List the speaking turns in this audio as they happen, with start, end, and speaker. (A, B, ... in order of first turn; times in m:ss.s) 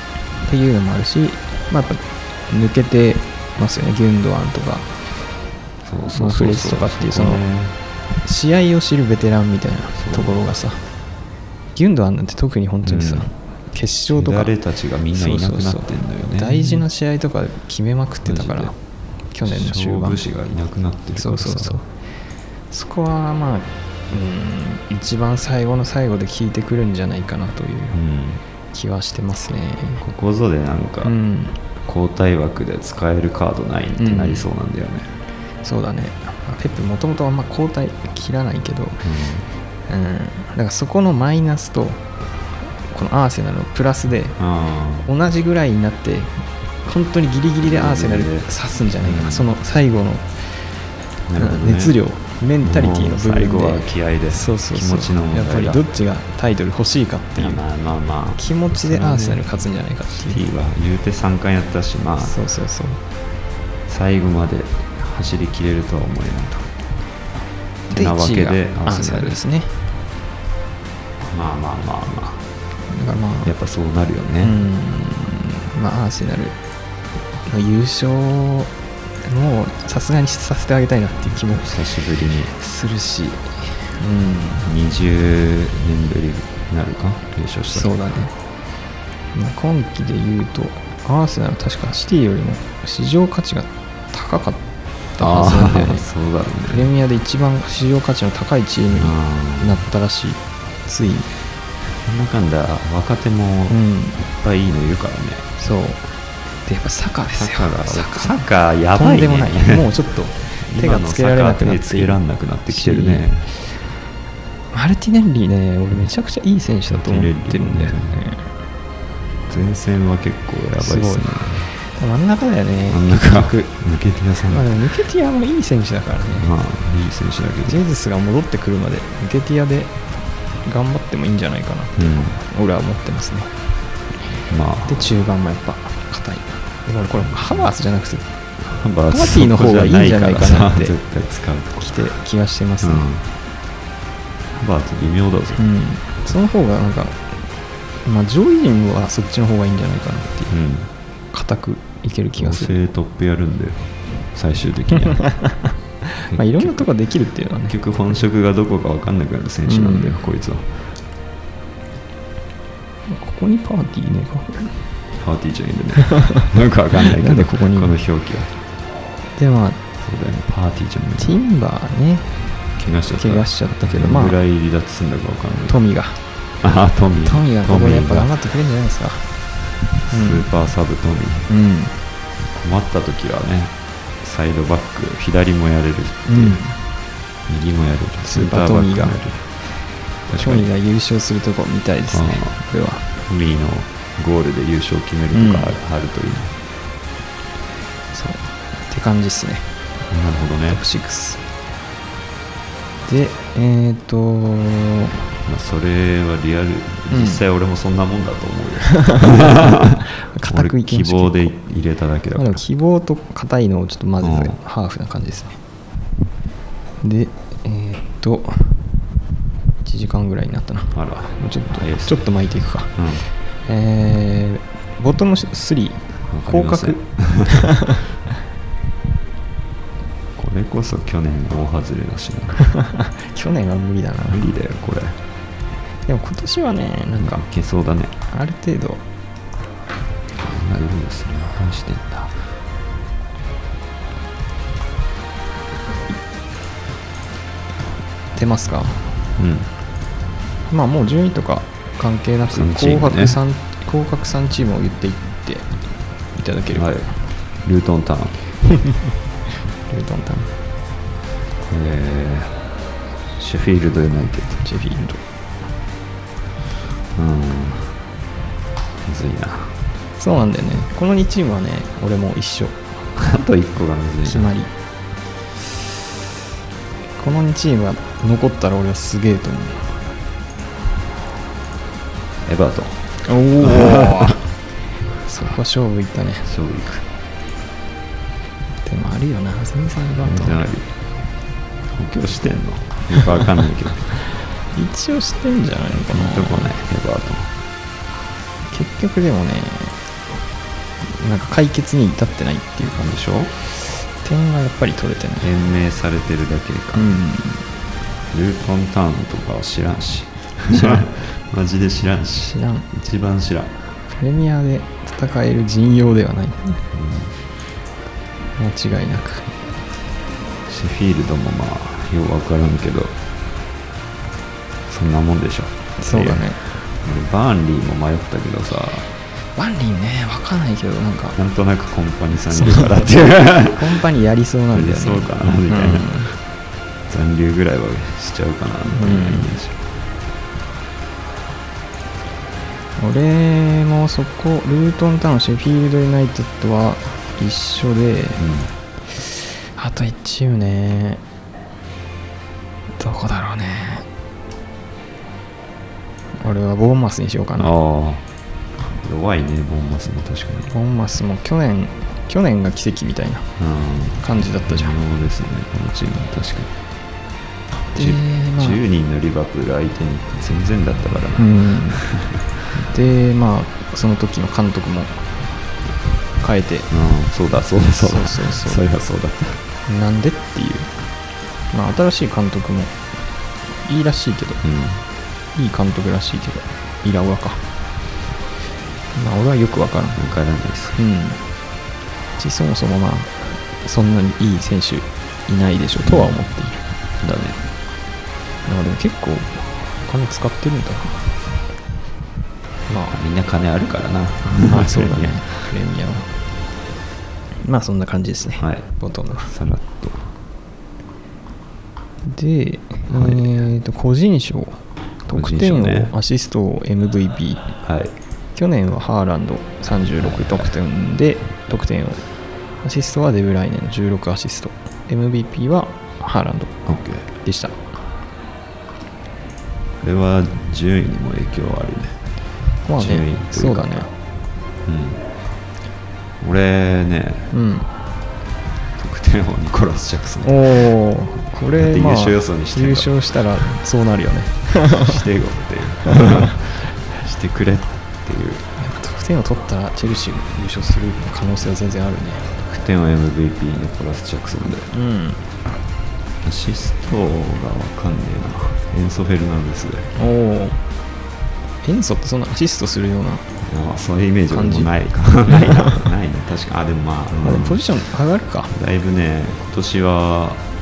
0:00.4-0:04.9 A
0:05.8-0:07.8 B
0:06.1-0:07.4 A
0:08.2-0:10.8 A
0:10.0-0:10.4 B
0:11.8-0:14.5 A
0:12.8-0:13.3 B
0:14.1-0:16.8 B
0:15.1-0:18.8 A
0:18.2-0:18.7 B
0:19.3-0:20.2 A
0:19.4-0:21.8 B
0:21.2-0:21.9 A
0:22.7-0:28.0 A
0:27.9-0:28.4 B
0:28.7-0:30.0 A
0:30.0-0:31.2 B
0:31.0-0:31.6 A
0:31.8-0:35.1 B
0:34.0-0:34.5 A
0:35.6-0:39.1 A
0:39.0-0:39.5 B
0:39.9-0:42.0 A
0:42.9-0:44.4 A
0:44.4-0:45.1 B
0:45.0-0:50.6 A
0:47.6-0:48.5 B
0:49.0-0:49.5 B
0:51.3-0:52.0 B
0:51.4-0:57.6 A
0:52.6-0:55.8 B
0:57.4-0:59.5 B
0:58.4-1:00.4 A
1:00.1-1:02.4 B
1:02.2-1:03.0 A
1:03.9-1:06.7 B
1:07.9-1:09.8 A
1:07.9-1:09.4 B
1:11.3-1:12.4 B
1:12.9-1:13.5 A
1:13.4-1:14.6 B
1:14.4-1:16.6 A
1:17.5-1:18.7 A
1:19.2-1:21.7 A
1:21.6-1:22.6 B
1:22.6-1:24.7 A
1:24.6-1:28.0 B
1:27.7-1:28.3 A
1:29.3-1:34.6 A
1:35.2-1:36.1 A
1:35.2-1:36.9 B
1:36.7-1:41.3 A
1:38.9-1:39.8 B
1:41.8-1:45.5 B
1:43.7-1:44.2 A
1:45.6-1:46.0 A
1:46.6-1:53.7 A
1:47.3-1:49.9 B
1:50.6-1:53.5 B
1:54.7-1:58.5 A
1:56.9-1:58.2 B
1:59.5-2:01.7 B
2:00.8-2:03.8 A
2:02.9-2:04.7 B
2:04.4-2:06.5 A
2:06.3-2:07.8 B
2:07.6-2:10.0 A
2:10.6-2:13.5 A
2:12.0-2:12.4 B
2:14.5-2:15.1 B
2:14.9-2:18.3 A
2:17.2-2:17.7 B
2:18.6-2:22.0 B
2:19.1-2:21.0 A
2:21.8-2:23.1 A
2:22.8-2:23.3 B
2:24.6-2:25.6 B
2:25.6-2:27.3 A
2:28.0-2:30.6 A
2:30.5-2:30.9 B
2:31.3-2:32.8 A
2:32.4-2:35.5 B
2:35.2-2:37.8 A
2:36.3-2:36.9 B
2:37.7-2:41.0 B
2:39.7-2:40.2 A
2:43.1-2:44.9 A
2:45.2-2:48.6 B
2:46.2-2:46.4 A
2:47.0-2:47.9 A
2:49.4-2:49.8 A
2:50.0-2:51.4 B
2:51.2-2:54.4 A
2:52.8-2:55.8 B
2:55.7-2:56.2 A
2:56.6-2:58.3 B
2:57.2-2:59.4 A
3:00.1-3:01.5 B
3:00.1-3:00.5 A
3:01.5-3:02.0 A
3:02.5-3:06.6 B
3:06.3-3:06.8 A
3:07.5-3:09.5 B
3:08.2-3:09.2 A
3:09.7-3:13.1 A
3:10.3-3:10.7 B
3:12.1-3:12.6 B
3:13.2-3:16.6 B
3:15.3-3:15.8 A
3:18.1-3:19.7 A
3:20.1-3:20.8 B
3:20.7-3:21.4 A
3:23.1-3:25.2 A
3:25.4-3:32.6 B
3:27.1-3:27.4 A
3:28.9-3:31.6 A
3:32.4-3:35.6 A
3:34.2-3:34.6 B
3:37.0-3:39.0 A
3:39.8-3:43.0 A
3:40.9-3:42.3 B
3:42.9-3:43.3 B
3:43.6-3:48.0 A
3:46.3-3:47.8 B
3:50.4-3:52.7 B
3:52.6-3:54.5 A
3:54.3-3:55.2 B
3:56.1-3:57.4 A
3:57.2-3:58.2 B
3:58.3-3:59.0 A
4:00.4-4:02.4 B
4:08.4-4:09.2 A
4:09.4-4:09.7 B
4:10.7-4:15.7 A
4:12.5-4:13.4 B
4:16.3-4:16.9 A
4:16.7-4:18.4 B
4:19.9-4:20.5 A
4:21.6-4:22.6 B
4:23.4-4:24.6 B
4:24.6-4:25.2 A
4:27.2-4:28.0 B
4:29.0-4:29.8 B
4:30.2-4:32.8 A
4:33.2-4:34.5 B
4:34.2-4:34.7 A
4:37.2-4:40.0 A
4:42.4-4:44.4 B
4:43.2-4:44.4 A
4:45.2-4:46.5 A
4:46.4-4:47.1 B
4:48.8-4:50.7 A
4:50.2-4:50.9 B
4:51.9-4:54.2 B
4:54.7-4:56.7 A
4:56.0-4:57.6 B
4:58.7-5:00.0 A
5:01.0-5:03.0 A
5:02.9-5:03.5 B
5:03.7-5:05.5 A
5:05.4-5:07.2 B
5:07.0-5:07.7 A
5:08.3-5:13.8 B
5:12.5-5:12.9 A
5:14.1-5:16.8 A
5:16.9-5:17.4 B
5:18.6-5:19.5 A
5:20.7-5:23.2 B
5:24.9-5:29.1 B
5:26.0-5:26.6 A
5:29.5-5:31.4 A
5:31.4-5:34.0 B
5:32.5-5:36.3 A
5:34.7-5:36.4 B
5:37.1-5:39.8 B
5:38.9-5:39.5 A
5:43.0-5:48.4 A
5:48.4-5:48.7 B
5:49.1-5:51.2 A
5:53.0-5:54.1 A
5:56.4-5:57.8 A
5:57.6-5:58.2 B
5:59.0-6:00.7 B
6:00.7-6:03.5 A
6:03.6-6:06.7 B
6:04.2-6:05.0 A
6:07.9-6:08.8 A
6:07.9-6:12.4 B
6:11.4-6:12.1 A
6:12.7-6:15.4 A
6:16.4-6:16.9 A
6:16.9-6:19.6 B
6:18.0-6:18.8 A
6:19.9-6:21.0 A
6:21.7-6:23.0 A
6:23.8-6:24.6 A
6:24.6-6:25.0 B
6:25.5-6:27.7 A
6:29.1-6:30.2 A
6:30.2-6:31.0 B
6:31.0-6:31.5 A
6:32.4-6:36.9 A
6:36.0-6:36.4 B
6:37.2-6:37.6 B
6:38.6-6:41.4 A
6:42.9-6:43.1 A
6:43.1-6:45.5 B
6:44.5-6:46.3 A
6:47.6-6:49.5 A
6:48.6-6:48.9 B
6:49.4-6:50.3 B
6:52.2-6:57.8 A
6:53.1-6:53.6 B
6:55.3-6:56.1 B
6:57.8-6:58.1 B
6:58.6-7:02.3 A
7:00.2-7:00.7 B
7:02.8-7:06.8 A
7:06.9-7:07.3 B
7:07.3-7:07.8 A
7:10.0-7:12.2 B
7:12.8-7:14.1 A
7:13.0-7:14.0 B
7:14.8-7:15.2 B
7:16.4-7:17.5 B
7:17.5-7:17.9 A
7:19.0-7:20.9 B
7:20.4-7:25.2 A
7:21.8-7:23.1 B
7:24.9-7:28.6 B
7:26.1-7:26.5 A
7:28.8-7:32.5 A
7:32.6-7:34.9 B
7:34.9-7:35.4 A
7:36.4-7:40.1 B
7:40.2-7:40.8 A
7:41.8-7:43.5 A
7:43.6-7:47.9 B
7:44.5-7:44.9 A
7:45.5-7:46.0 A
7:47.4-7:48.7 A
7:48.7-7:50.7 B